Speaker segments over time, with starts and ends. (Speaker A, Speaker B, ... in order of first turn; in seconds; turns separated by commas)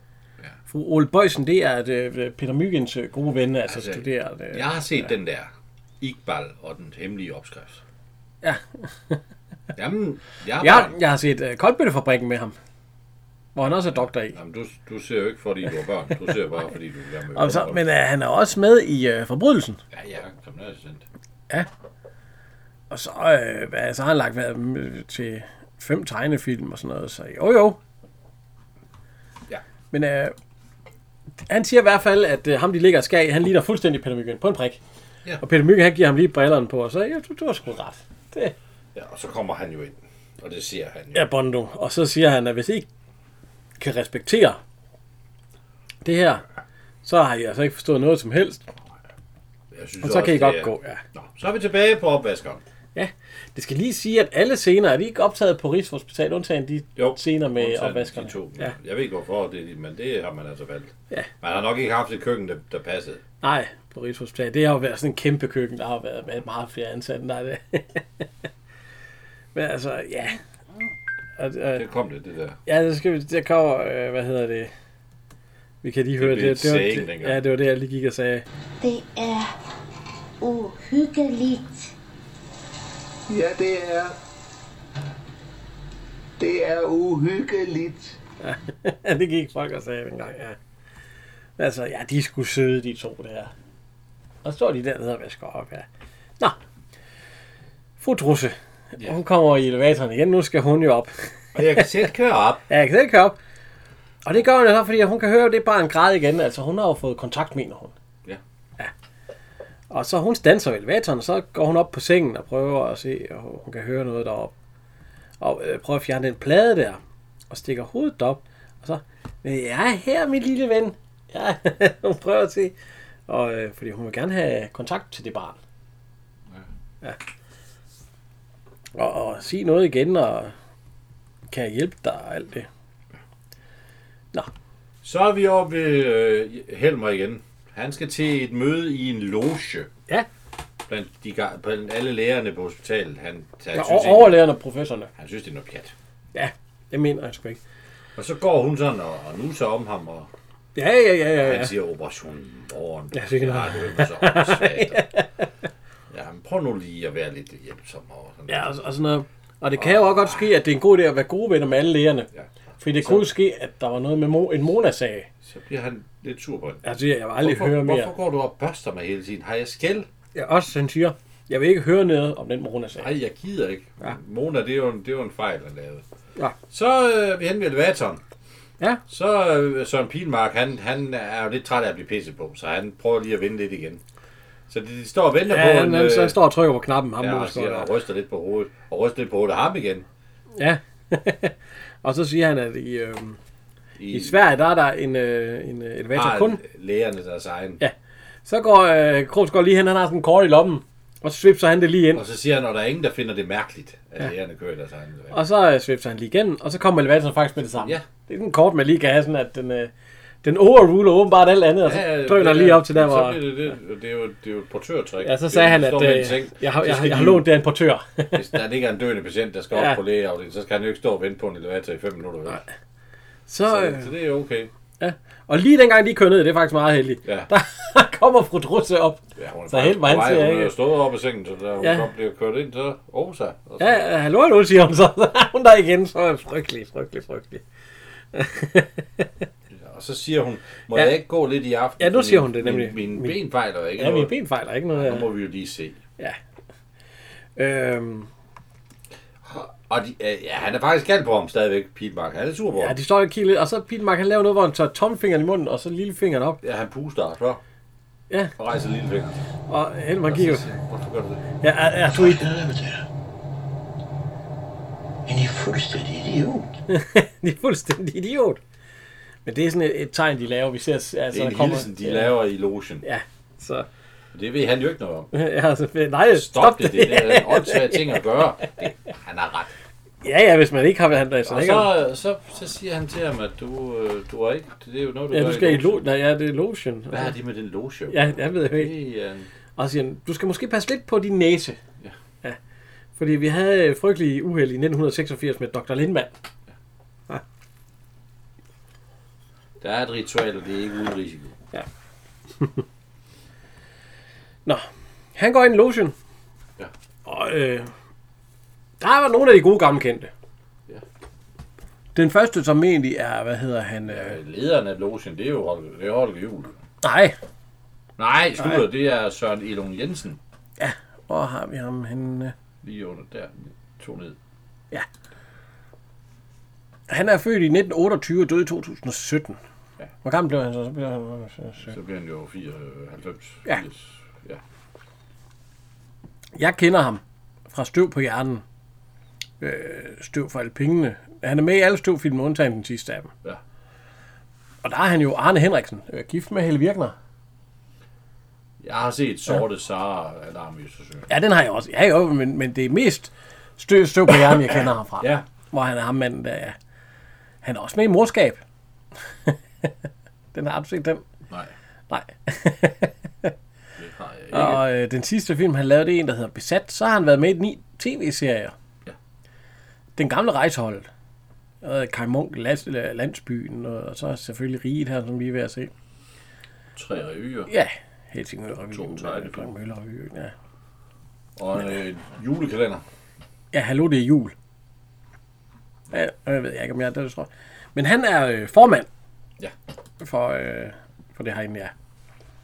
Speaker A: 0.7-5.0, Speaker B: 3.7-5.5, Speaker B: 6.0-7.8, Speaker A: 8.4-9.2, Speaker B: 9.7-10.9, Speaker A: 10.6-12.5, Speaker A: 13.5-14.3, Speaker B: 13.6-17.8, Speaker A: 17.4-19.8, Speaker B: 19.9-21.0, Speaker A: 22.9-27.8, Speaker A: 29.9-30.3, Speaker A: 31.5-34.8, Speaker A: 35.4-38.5, Speaker B: 38.9-41.3, Speaker A: 41.1-42.9, Speaker A: 43.8-44.6, Speaker A: 46.0-46.4, Speaker A: 47.0-48.7, Speaker B: 49.7-52.6, Speaker A: 50.0-51.0, Speaker A: 52.9-58.7, Speaker B: 57.0-63.2, Speaker A: 63.4-68.2, Speaker A: 69.5-70.4, Speaker A: 71.4-71.8, Speaker B: 71.8-72.6, Speaker A: 72.7-74.7, Speaker A: 75.8-78.4, Speaker B: 76.2-77.4, Speaker C: 78.8-79.5, Speaker C: 80.4-81.9, Speaker D: 83.3-84.1, Speaker D: 86.4-88.2, Speaker A: 88.4-90.6, Speaker A: 91.6-93.5, Speaker A: 94.4-95.8, Speaker A: 98.0-101.8, Speaker B: 101.5-102.6, Speaker A: 102.7-103.3, Speaker A: 104.2-107.9, Speaker A: 109.9-114.5, Speaker A: 115.4-122.7, Speaker A: 123.3-125.6, Speaker A: 128.9-130.5, Speaker A: 131.5-132.7, Speaker B: 135.0-139.9, Speaker B: 140.9-144.4, Speaker A: 143.7-145.1, Speaker B: 145.2-145.9, Speaker A: 146.3-147.6, Speaker B: 148.2-150.3, Speaker A: 150.8-151.7, Speaker B: 151.4-155.0, Speaker A: 153.1-155.4, Speaker B: 156.1-158.7, Speaker A: 158.5-162.3, Speaker B: 159.8-160.5, Speaker B: 162.3-163.3, Speaker A: 162.8-165.3, Speaker B: 165.4-166.8, Speaker A: 166.8-168.1, Speaker B: 167.4-170.1, Speaker A: 170.3-173.1, Speaker B: 173.0-176.0, Speaker B: 176.7-178.2, Speaker B: 179.1-184.0, Speaker B: 184.7-186.4, Speaker A: 185.5-187.9, Speaker B: 187.2-190.1, Speaker A: 190.6-193.4, Speaker B: 194.0-194.4, Speaker A: 194.1-196.6, Speaker B: 196.1-197.8, Speaker A: 198.4-202.2, Speaker B: 202.1-205.4, Speaker A: 205.3-209.9, Speaker B: 207.7-208.0, Speaker A: 210.4-213.4, Speaker B: 211.8-217.4, Speaker A: 215.2-218.4, Speaker B: 218.3-222.6, Speaker A: 223.5-224.1, Speaker B: 223.7-224.7, Speaker A: 225.0-230.7, Speaker B: 227.2-227.5, Speaker B: 229.4-234.1, Speaker A: 233.8-237.6, Speaker A: 238.3-239.3, Speaker B: 239.7-244.3, Speaker A: 242.0-243.3, Speaker A: 244.0-245.3, Speaker B: 244.9-246.0, Speaker A: 247.6-248.3, Speaker B: 249.4-252.9, Speaker A: 252.8-256.6, Speaker B: 256.6-257.6, Speaker B: 258.6-259.4, Speaker A: 259.7-260.6, Speaker B: 260.3-261.4, Speaker A: 261.6-262.4, Speaker E: 262.1-263.1, Speaker E: 265.2-266.7, Speaker A: 266.9-268.6, Speaker A: 269.4-272.3, Speaker B: 271.3-273.0, Speaker A: 273.0-273.9, Speaker B: 274.3-275.3, Speaker A: 275.3-278.2, Speaker B: 276.3-279.7, Speaker A: 280.2-281.9, Speaker B: 281.4-286.0, Speaker A: 285.3-287.3, Speaker B: 287.1-289.5, Speaker A: 288.1-288.9, Speaker A: 289.8-291.8, Speaker A: 293.2-296.3, Speaker B: 299.8-301.5, Speaker A: 305.4-306.1, Speaker A: 307.2-307.9, Speaker A: 309.0-310.3, Speaker A: 312.1-314.4, Speaker B: 314.1-316.8, Speaker A: 317.0-317.4, Speaker B: 318.2-320.4, Speaker A: 318.6-318.8, Speaker A: 320.8-322.5, Speaker B: 322.8-324.4, Speaker A: 327.1-329.6, Speaker A: 330.2-331.9, Speaker B: 331.9-334.6, Speaker A: 336.6-338.6, Speaker A: 339.6-343.3, Speaker A: 344.8-347.1, Speaker B: 348.8-351.3, Speaker A: 351.3-356.8, Speaker B: 354.3-355.4, Speaker A: 357.6-358.6, Speaker A: 359.4-359.9, Speaker A: 360.5-361.2, Speaker A: 362.1-363.5, Speaker B: 364.0-364.8, Speaker A: 364.5-368.7, Speaker A: 370.2-371.1, Speaker A: 371.8-375.9, Speaker B: 376.9-377.7, Speaker A: 377.7-380.5, Speaker B: 378.9-379.7, Speaker B: 381.6-383.0, Speaker A: 383.7-384.5, Speaker A: 386.1-389.1, Speaker A: 390.2-391.9